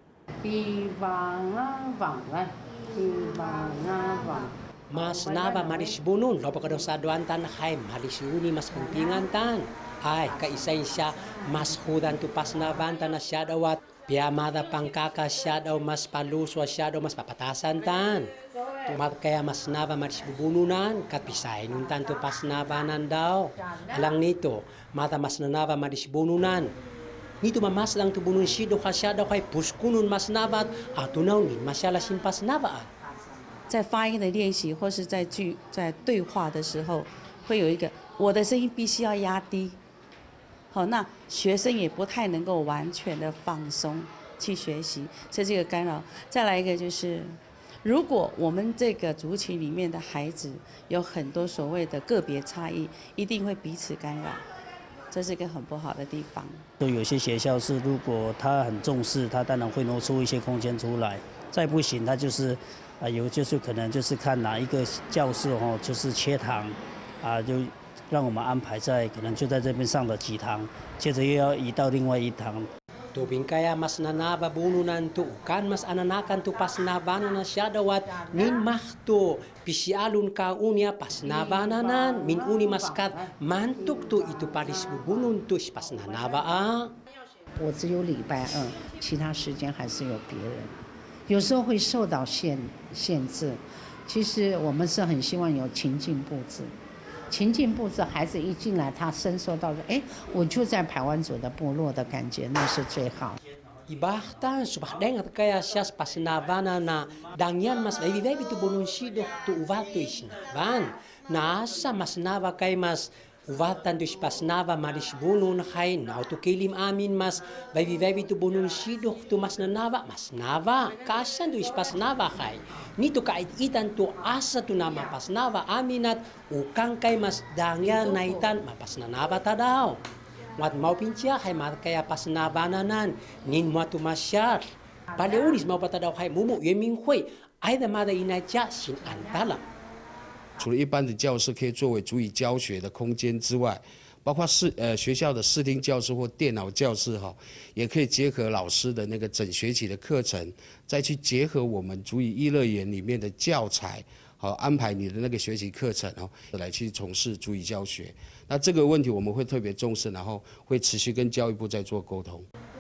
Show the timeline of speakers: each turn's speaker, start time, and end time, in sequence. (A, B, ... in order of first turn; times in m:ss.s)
0:00.4-0:04.5 A
0:04.9-0:18.3 B
0:05.2-0:05.5 A
0:18.8-0:26.7 B
0:27.4-0:32.9 B
0:33.7-0:39.8 C
0:40.7-0:54.4 C
0:55.1-0:56.6 C
0:56.8-1:12.7 D
1:13.1-1:26.9 B
1:27.6-1:30.7 A
1:31.3-1:36.7 A
1:37.3-1:43.4 A
1:43.9-2:10.0 B
2:10.6-2:19.6 B
2:20.6-2:42.5 E